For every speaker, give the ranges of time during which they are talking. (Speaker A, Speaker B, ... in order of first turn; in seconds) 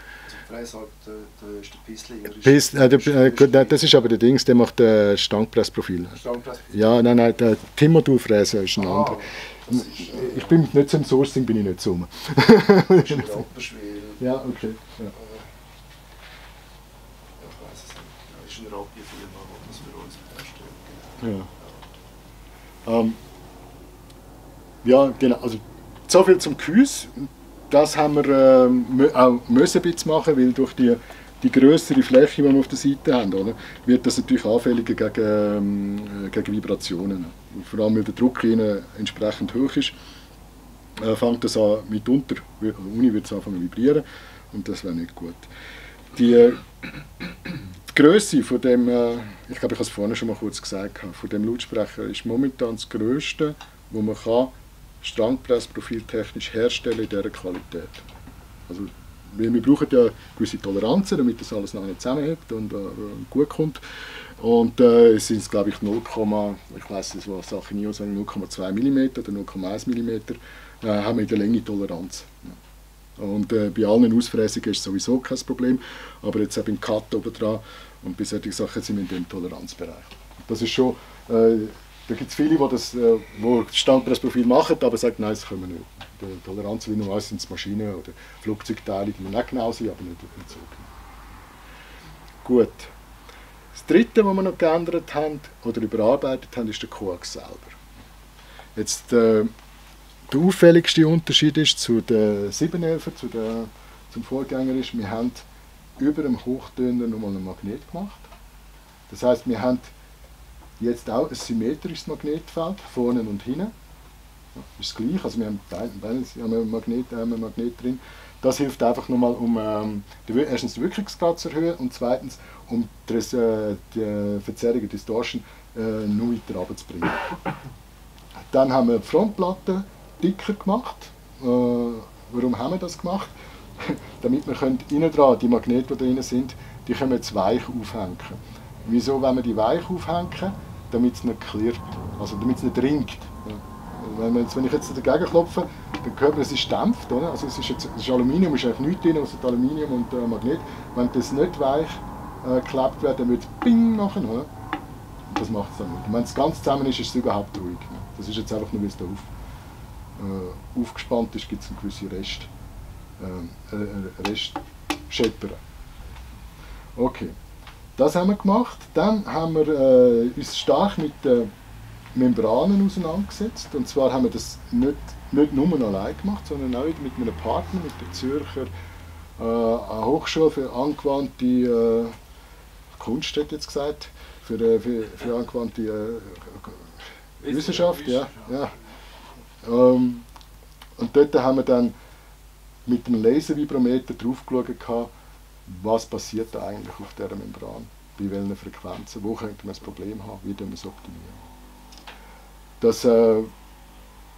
Speaker A: 0.3-4.0, 6.2-6.8, 8.8-10.6, 12.9-14.3, 15.1-15.4, 17.4-21.7
Speaker B: 2.4-9.2, 9.7-13.4, 14.2-15.1, 21.2-21.5, 22.9-23.2, 24.8-40.0, 41.0-45.5, 46.1-58.1, 58.7-63.8, 64.4-72.6, 73.2-90.9, 92.4-92.9, 93.7-97.8, 98.8-99.5, 100.3-105.5, 106.0-108.3, 109.1-109.9, 110.8-113.7, 114.5-127.4, 128.4-154.5, 155.3-159.3, 160.2-162.5, 163.2-165.6, 167.0-167.3, 168.0-171.5, 172.1-178.7, 179.4-182.2, 182.9-188.7, 189.6-190.3, 191.0-191.9, 192.9-195.1, 195.7-201.5, 202.8-203.5